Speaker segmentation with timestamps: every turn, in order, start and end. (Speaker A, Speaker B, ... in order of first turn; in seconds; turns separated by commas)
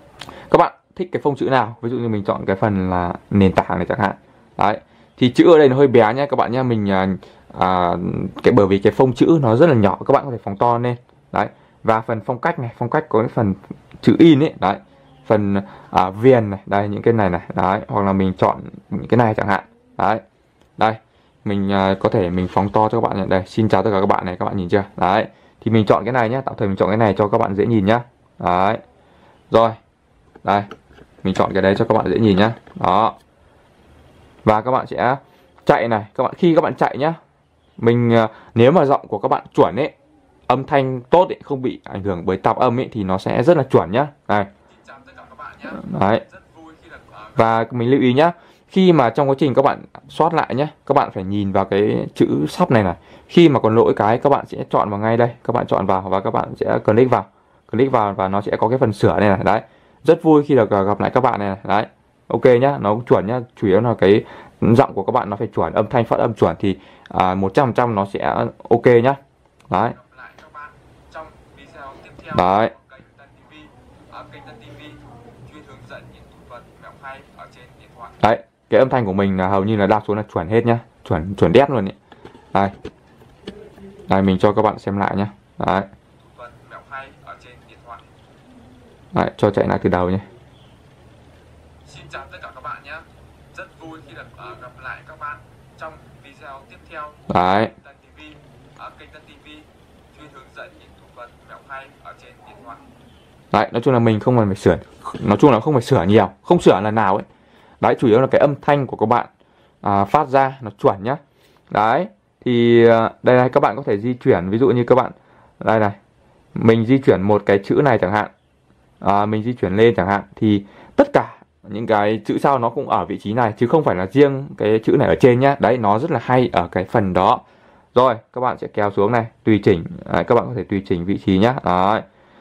Speaker A: 0.5-20.2, Speaker A: 20.8-28.8, Speaker A: 29.5-29.8, Speaker A: 30.4-30.7, Speaker A: 31.2-33.1, Speaker A: 34.4-37.2, Speaker A: 37.8-39.9, Speaker A: 40.5-44.5, Speaker B: 44.7-47.4, Speaker A: 45.7-46.2, Speaker A: 47.4-69.2, Speaker A: 69.7-70.0, Speaker B: 69.9-78.2, Speaker A: 72.3-72.7, Speaker A: 78.2-81.9, Speaker A: 84.1-85.9, Speaker B: 86.2-88.1, Speaker A: 89.1-90.2, Speaker B: 91.8-102.8, Speaker A: 97.3-97.7, Speaker A: 103.5-107.2, Speaker A: 107.8-109.3, Speaker A: 109.8-111.2, Speaker A: 111.7-116.0, Speaker A: 116.5-118.3, Speaker A: 119.0-127.4, Speaker A: 127.9-132.0